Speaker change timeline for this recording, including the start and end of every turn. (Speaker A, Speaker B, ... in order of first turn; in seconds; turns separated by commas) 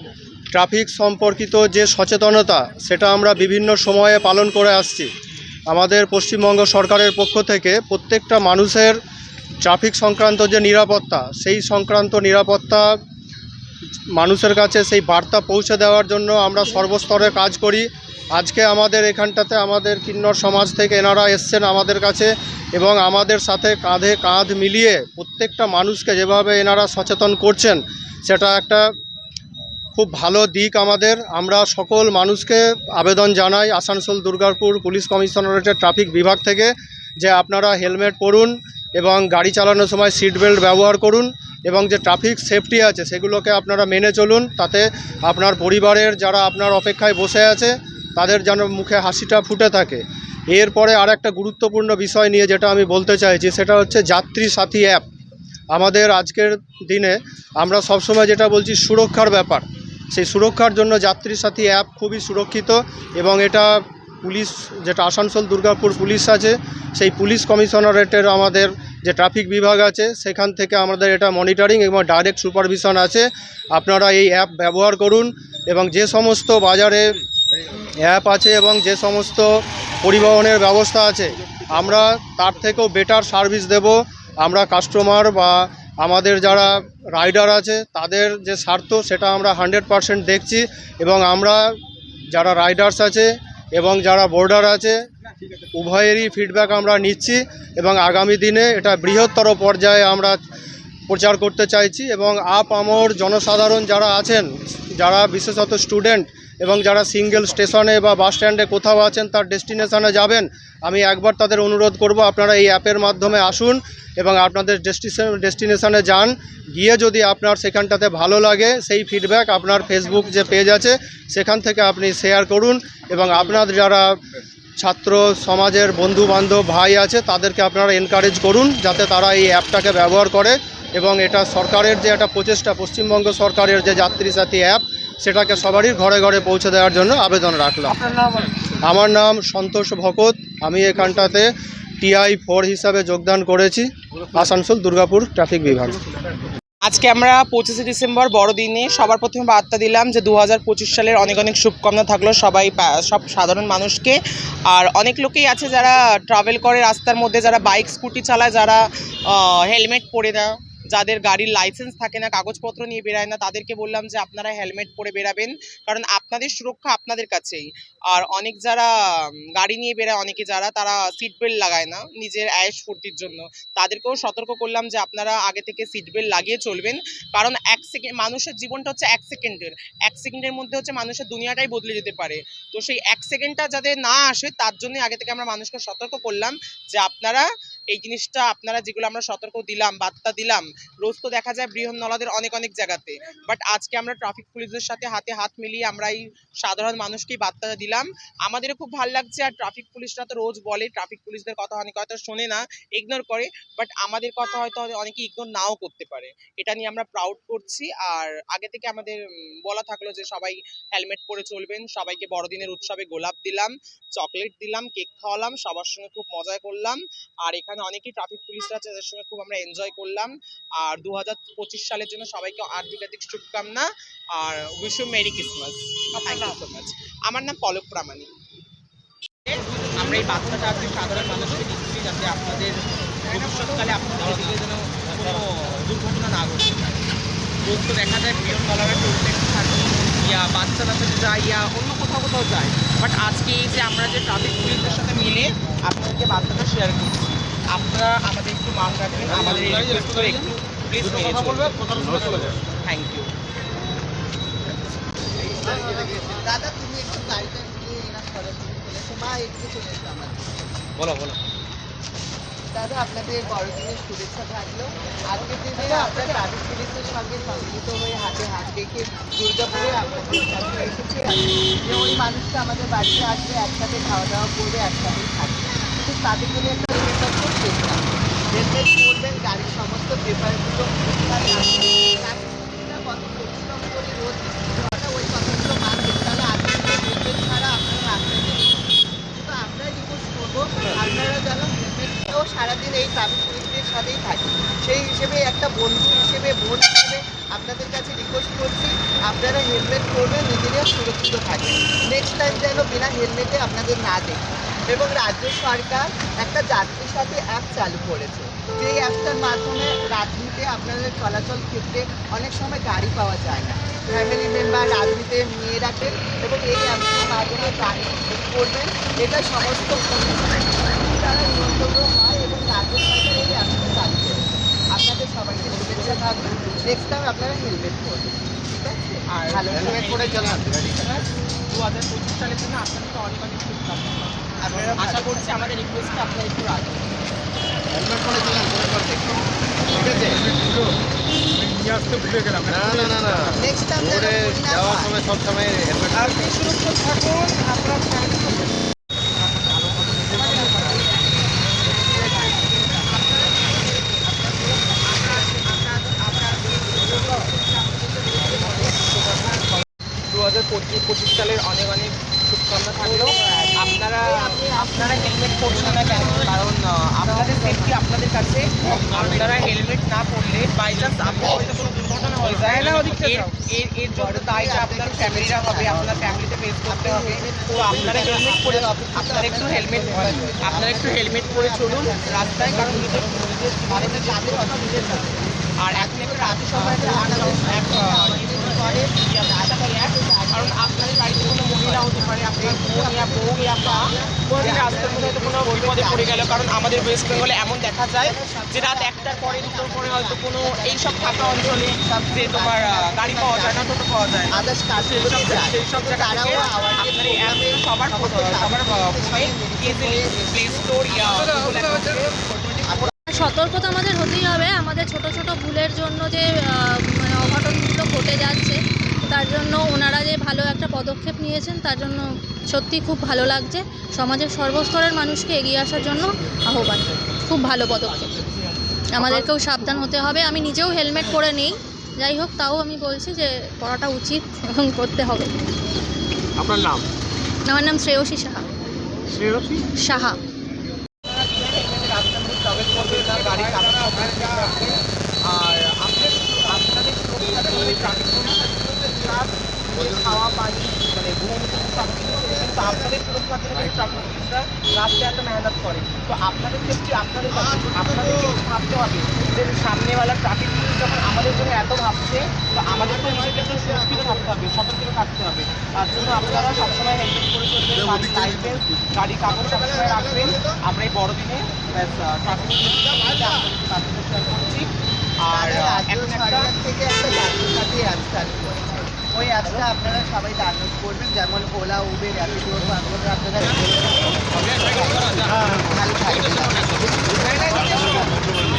Speaker A: 0.5-5.1, Speaker A: 5.7-9.0, Speaker A: 9.6-13.0, Speaker A: 14.1-28.9, Speaker A: 29.9-55.0, Speaker A: 55.7-77.2, Speaker A: 78.0-91.7, Speaker A: 92.3-95.0, Speaker A: 95.7-100.4, Speaker A: 101.1-124.2, Speaker A: 124.8-138.0, Speaker A: 138.8-146.0, Speaker B: 146.8-228.3, Speaker B: 229.5-237.1, Speaker B: 237.7-253.3, Speaker C: 255.4-260.9, Speaker C: 262.7-330.1, Speaker B: 329.3-337.2, Speaker D: 329.8-331.1, Speaker C: 334.6-335.5, Speaker D: 337.9-339.3, Speaker D: 339.9-340.7, Speaker D: 342.1-346.4, Speaker C: 343.5-345.2, Speaker B: 346.1-348.8, Speaker B: 349.4-351.1, Speaker C: 350.4-351.0, Speaker C: 351.8-353.6, Speaker B: 351.9-412.4, Speaker C: 354.8-355.0, Speaker C: 364.2-366.6, Speaker C: 367.2-368.0, Speaker C: 374.1-403.9, Speaker C: 404.5-412.1, Speaker C: 412.8-413.1, Speaker E: 413.3-422.2, Speaker E: 422.7-428.6, Speaker E: 429.1-435.5, Speaker D: 436.6-437.0, Speaker E: 437.7-438.7, Speaker D: 439.3-439.9, Speaker E: 440.0-440.4, Speaker B: 441.3-476.7, Speaker C: 475.5-488.2, Speaker B: 485.4-485.8, Speaker B: 486.6-488.2